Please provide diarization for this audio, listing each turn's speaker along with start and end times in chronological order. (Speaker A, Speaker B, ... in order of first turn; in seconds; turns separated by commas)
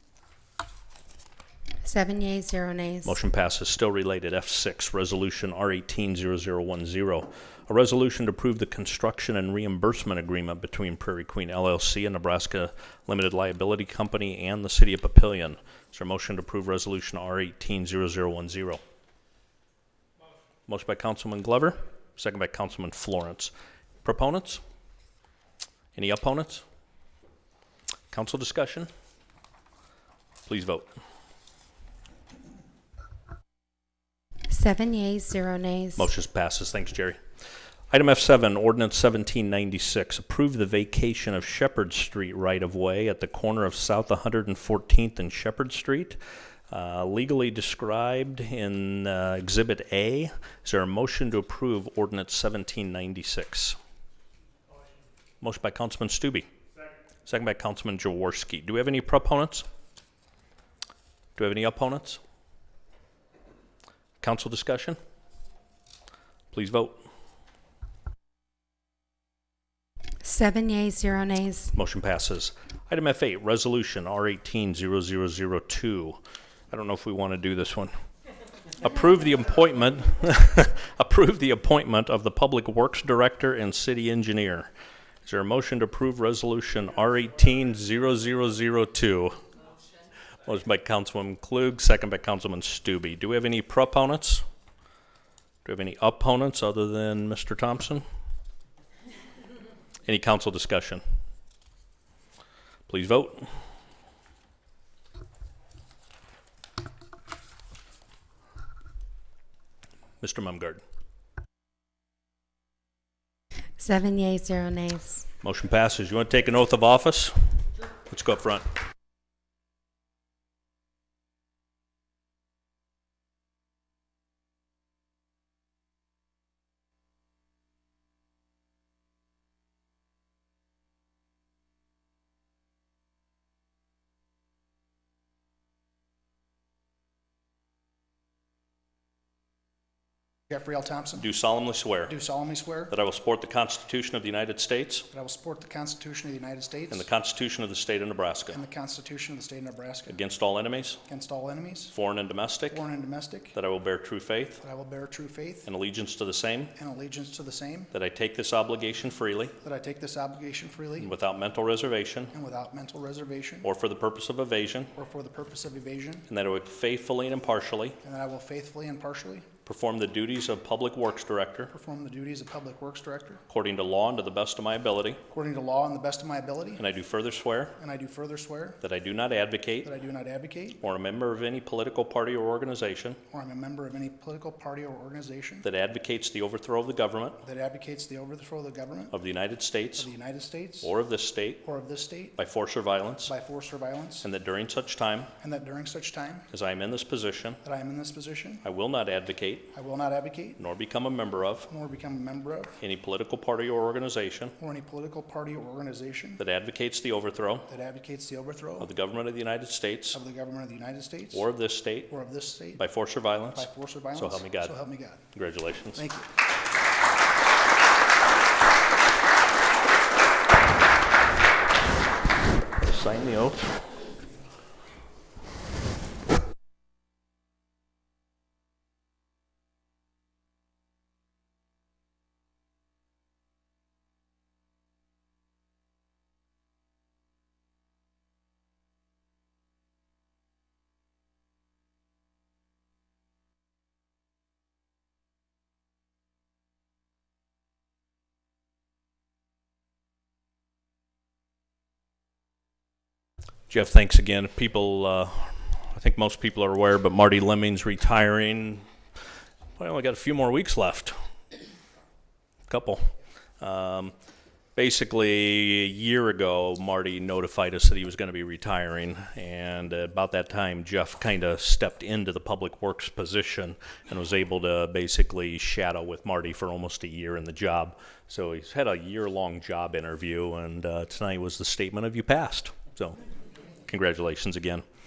Speaker A: 1.8-3.2, Speaker B: 3.0-18.8, Speaker B: 20.7-23.5, Speaker B: 24.0-24.6, Speaker B: 25.9-26.6, Speaker B: 28.1-28.9, Speaker B: 30.4-30.9, Speaker A: 34.5-36.1, Speaker B: 36.0-37.2, Speaker B: 37.9-53.8, Speaker B: 55.4-56.5, Speaker B: 57.2-59.6, Speaker B: 61.4-62.2, Speaker B: 64.2-65.0, Speaker B: 66.5-67.0, Speaker A: 70.2-71.7, Speaker B: 71.7-76.2, Speaker B: 76.7-77.9, Speaker B: 78.8-84.7, Speaker B: 85.2-89.4, Speaker B: 90.4-94.4, Speaker B: 95.6-98.0, Speaker B: 100.0-101.0, Speaker B: 102.9-103.5, Speaker B: 110.2-110.8, Speaker A: 113.8-115.2, Speaker B: 115.4-117.4, Speaker B: 118.0-118.7, Speaker C: 140.5-141.3, Speaker B: 141.2-142.2, Speaker C: 142.1-142.9, Speaker B: 142.9-145.1, Speaker C: 145.1-147.1, Speaker B: 146.9-148.6, Speaker C: 148.5-150.2, Speaker B: 150.1-151.0, Speaker C: 151.1-151.9, Speaker B: 151.9-152.8, Speaker C: 152.7-153.5, Speaker B: 153.5-154.6, Speaker C: 154.6-155.7, Speaker B: 155.6-156.7, Speaker C: 156.8-157.9, Speaker B: 157.9-159.6, Speaker C: 159.6-161.1, Speaker B: 161.0-162.3, Speaker C: 162.3-163.7, Speaker B: 163.6-164.9, Speaker C: 164.9-166.2, Speaker B: 166.3-168.0, Speaker C: 168.0-169.5, Speaker B: 169.6-171.7, Speaker C: 171.7-173.4, Speaker B: 173.5-175.2, Speaker C: 175.3-176.8, Speaker B: 176.8-177.7, Speaker C: 177.8-178.8, Speaker B: 178.8-179.9, Speaker C: 179.8-180.8, Speaker B: 180.8-183.2, Speaker C: 183.3-185.6, Speaker B: 185.6-187.4, Speaker C: 187.4-189.1, Speaker B: 189.1-190.1, Speaker C: 190.0-190.9, Speaker B: 190.8-191.6, Speaker C: 191.6-192.3, Speaker B: 192.3-193.3, Speaker C: 193.2-194.3, Speaker B: 194.2-195.3, Speaker C: 195.4-196.5, Speaker B: 196.5-197.6, Speaker C: 197.6-198.6, Speaker B: 198.6-199.7, Speaker C: 199.7-200.6, Speaker B: 200.6-201.7, Speaker C: 201.7-202.8, Speaker B: 202.8-204.5, Speaker C: 204.6-206.4, Speaker B: 206.4-207.7, Speaker C: 207.7-208.9, Speaker B: 208.8-210.2, Speaker C: 210.1-211.5, Speaker B: 211.3-212.1, Speaker C: 212.1-212.8, Speaker B: 212.8-214.7, Speaker C: 213.5-215.2, Speaker B: 215.3-216.0, Speaker C: 215.9-216.3, Speaker B: 222.8-223.8, Speaker B: 253.7-258.8, Speaker B: 259.8-261.1, Speaker B: 262.7-263.1, Speaker B: 263.6-264.1, Speaker B: 264.8-283.2, Speaker B: 283.9-284.8